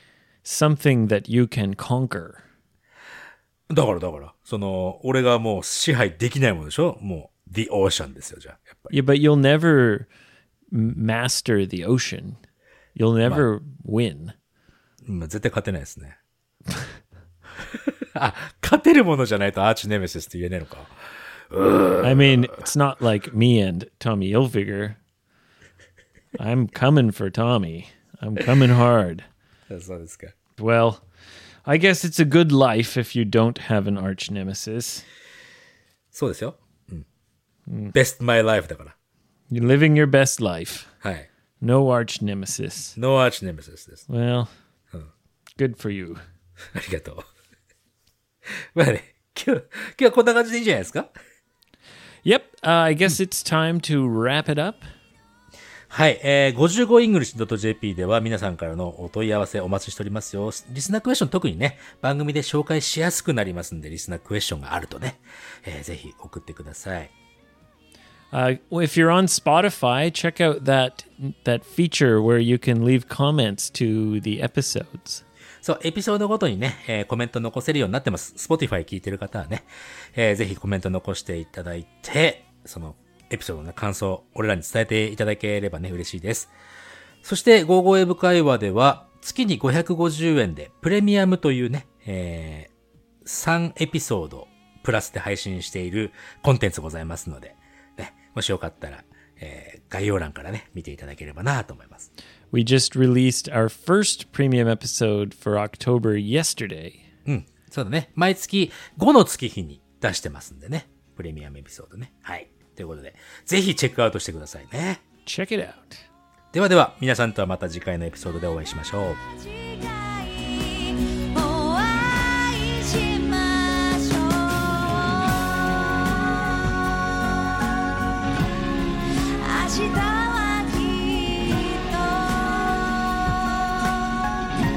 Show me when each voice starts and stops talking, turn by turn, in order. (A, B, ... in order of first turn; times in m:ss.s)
0:00.4-0:02.4 A
0:03.7-0:08.9 B
0:08.9-0:10.1 A
0:10.7-0:12.4 A
0:13.0-0:14.3 A
0:15.0-0:16.2 B
0:17.6-0:20.9 B
0:21.5-0:22.5 B
0:22.0-0:25.0 A
0:26.4-0:29.2 A
0:29.7-0:30.3 B
0:30.6-0:31.0 A
0:31.7-0:35.0 A
0:36.1-0:37.1 B
0:37.7-0:38.0 A
0:37.9-0:38.9 B
0:39.5-0:40.9 A
0:41.0-0:41.3 B
0:41.6-0:43.0 A
0:43.0-0:44.1 B
0:44.1-0:44.5 A
0:45.6-0:46.2 A
0:46.7-0:47.2 B
0:48.5-0:51.1 B
0:52.2-0:54.8 A
0:55.9-1:07.1 B
1:08.3-1:15.2 A
1:15.6-1:26.5 B
1:27.2-1:32.7 B
1:33.2-1:42.1 B
1:42.5-1:47.0 A
1:47.3-1:55.0 B
1:55.3-1:56.0 A
1:56.5-1:59.2 B
1:59.4-2:05.5 C
2:09.4-2:14.3 C